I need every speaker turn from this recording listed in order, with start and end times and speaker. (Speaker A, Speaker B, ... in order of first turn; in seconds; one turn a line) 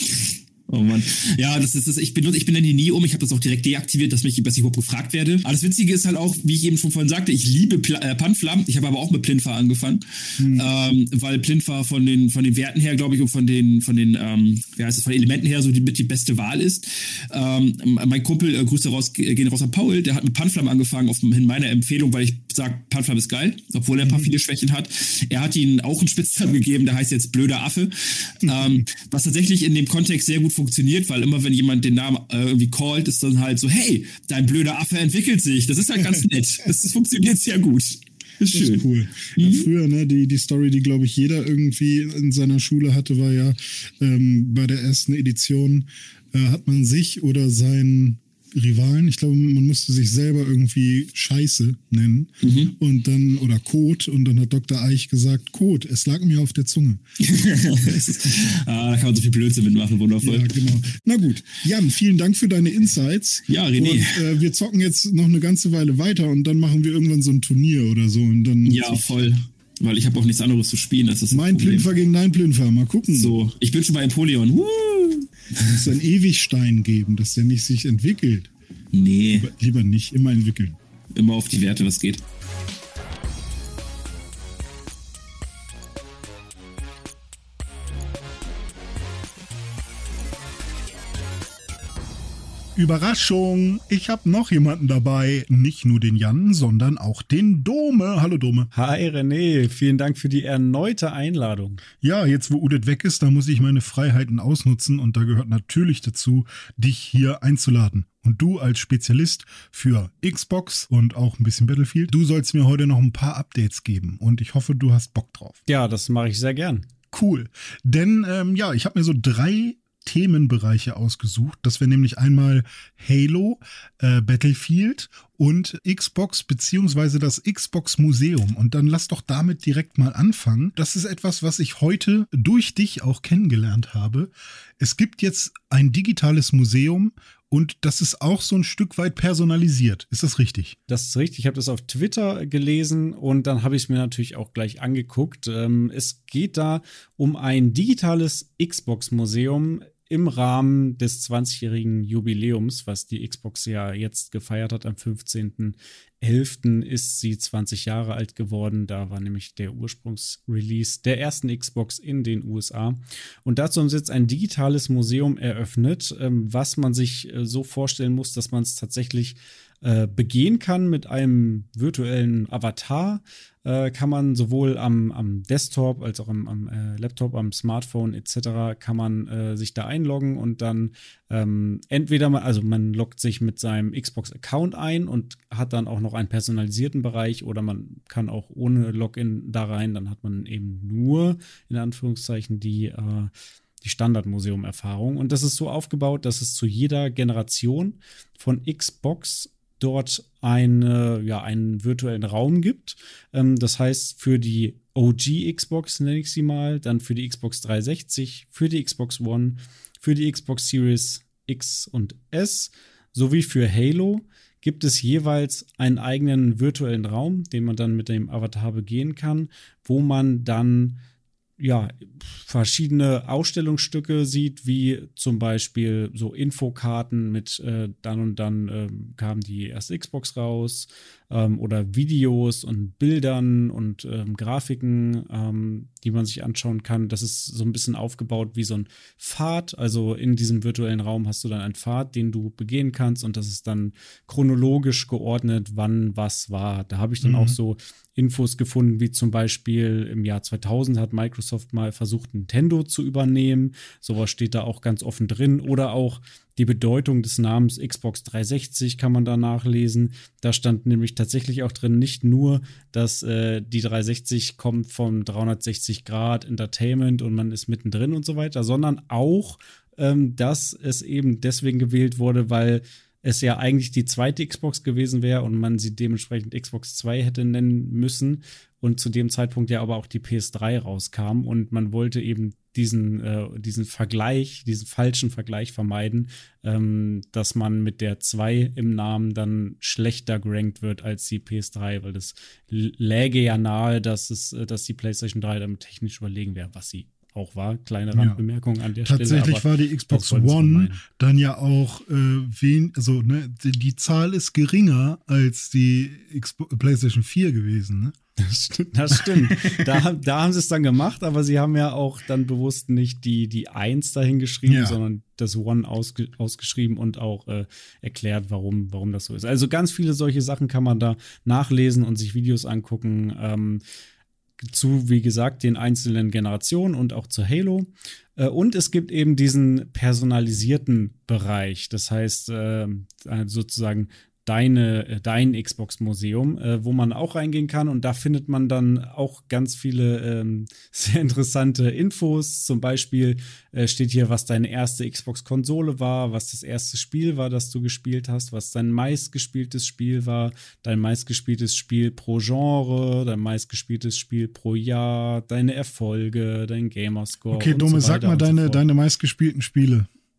Speaker A: 0.7-39.7
Speaker B: 10.4-10.7
Speaker B: 24.0-24.3
Speaker B: 28.4-28.8
Speaker B: 38.5-57.0
Speaker A: 52.4-52.7
Speaker A: 57.2-60.6
Speaker B: 60.2-69.3
Speaker A: 63.5-64.2
Speaker A: 68.6-71.9
Speaker B: 71.3-73.4
Speaker A: 73.1-75.8
Speaker B: 75.6-78.5
Speaker A: 78.9-79.5
Speaker B: 79.3-80.8
Speaker A: 81.1-82.2
Speaker B: 92.8-98.7
Speaker C: 98.7-101.8
Speaker B: 102.0-115.6
Speaker C: 115.7-116.8
Speaker B: 117.1-140.8
Speaker C: 140.9-221.0
Speaker C: 221.6-301.0
Speaker B: 247.2-247.6
Speaker B: 298.1-298.4
Speaker B: 299.0-308.1
Speaker C: 308.4-323.8
Speaker B: 309.1-310.0
Speaker B: 314.6-315.0
Speaker C: 324.6-358.8
Speaker B: 357.5-360.1